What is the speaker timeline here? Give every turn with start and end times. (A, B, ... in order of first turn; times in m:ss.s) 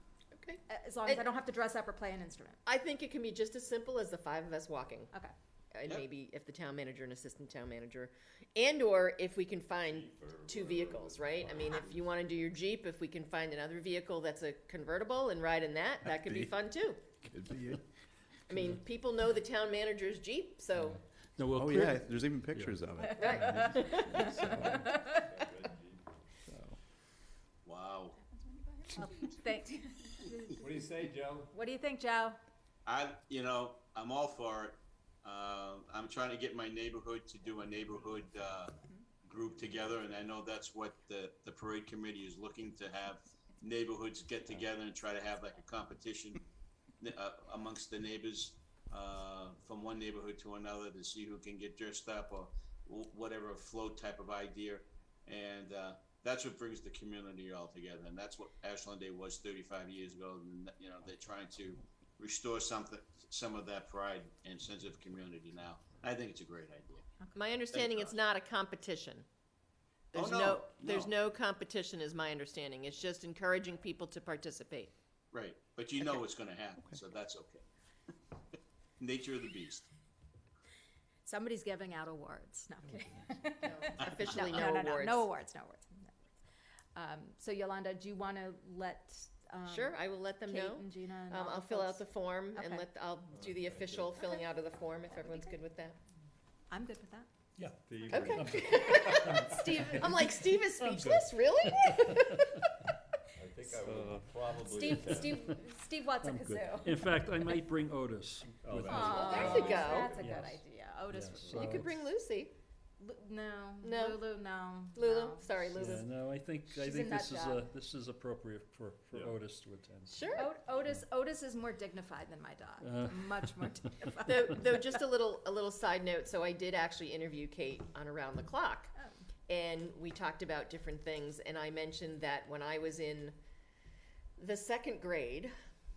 0:00.3-0:01.2 A
0:00.7-0:02.6 B
0:02.6-0:05.1 A
0:05.7-0:17.0 A
0:09.8-0:12.2 C
0:16.1-0:16.6 D
0:17.3-0:17.8 D
0:18.5-0:21.0 A
0:20.8-0:22.8 E
0:21.5-0:24.9 D
0:23.1-0:25.2 B
0:23.2-0:24.3 A
0:24.5-0:26.0 C
0:26.5-0:26.8 D
0:27.6-0:28.2 F
0:28.8-0:30.8 B
0:30.6-0:31.5 C
0:31.5-0:32.4 B
0:32.8-0:46.4 F
0:47.0-1:07.1 F
1:07.3-1:09.2 A
1:07.7-1:08.1 F
1:10.1-1:14.9 A
1:10.1-1:11.1 F
1:15.3-1:17.6 F
1:19.0-1:19.9 F
1:21.2-1:26.1 B
1:23.6-1:25.3 A
1:26.9-1:32.9 B
1:29.7-1:36.0 A
1:33.3-1:34.1 C
1:35.1-1:35.6 B
1:36.7-1:37.3 B
1:37.6-1:40.0 E
1:37.8-1:40.1 C
1:38.1-1:42.6 A
1:40.8-1:41.3 C
1:41.9-1:42.2 E
1:43.4-1:45.5 C
1:44.6-1:47.2 B
1:46.2-1:50.6 E
1:48.6-1:50.6 C
1:48.8-1:51.8 B
1:49.1-1:50.1 A
1:51.1-1:51.9 E
1:51.5-1:52.5 A
1:53.0-1:56.0 B
1:53.8-1:54.2 A
1:54.9-1:56.1 A
1:55.7-2:00.2 E
1:56.7-1:57.6 B
2:00.1-2:00.5 A
2:00.4-2:04.7 B
2:02.8-2:03.5 E
2:04.2-2:08.9 A
2:09.5-2:13.3 A
2:14.4-2:15.5 A